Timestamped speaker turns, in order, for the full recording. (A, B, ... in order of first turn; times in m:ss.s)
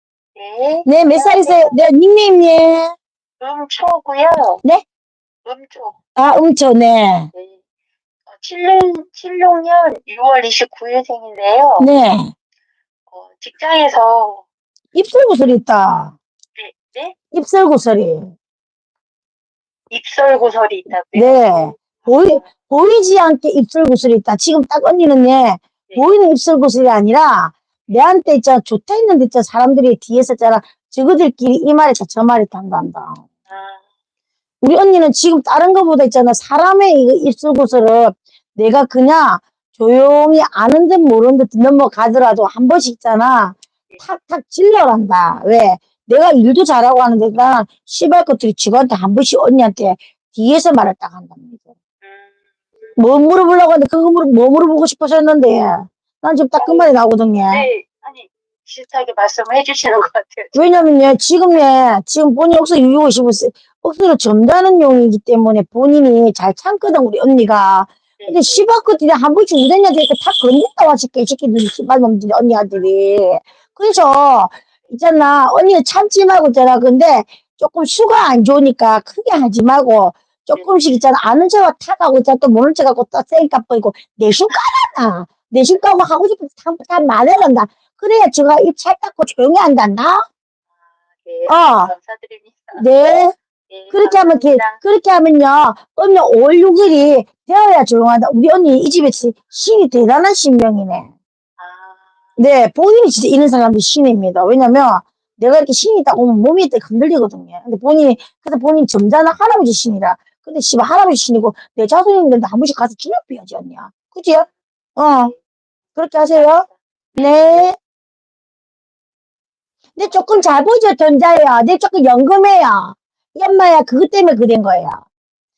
0:00.4-0:01.8 A
0:00.9-0:02.9 B
0:03.4-0:04.6 A
0:05.4-0:06.0 A
0:06.2-0:07.3 B
0:07.3-0:07.6 A
0:08.3-0:11.9 A
0:11.8-0:12.3 B
0:13.1-0:14.4 A
0:14.9-0:16.2 B
0:16.6-0:17.2 A
0:17.3-0:18.3 B
0:19.9-0:22.4 A
0:21.1-0:33.2 B
0:33.5-0:33.9 A
0:34.6-0:51.7 B
0:52.0-0:53.0 A
0:53.0-0:57.7 B
0:56.6-0:56.9 A
0:57.5-1:00.8 A
1:00.6-1:30.3 B
1:08.2-1:08.6 A
1:31.2-1:32.8 A
1:31.5-1:31.9 B
1:32.8-1:33.4 B
1:33.7-1:34.8 A
1:33.9-1:41.1 B
1:41.6-1:42.4 A
1:42.4-1:55.3 B
1:56.0-1:57.8 B
1:56.3-1:57.6 A
2:00.0-2:05.0 B
2:00.1-2:00.5 A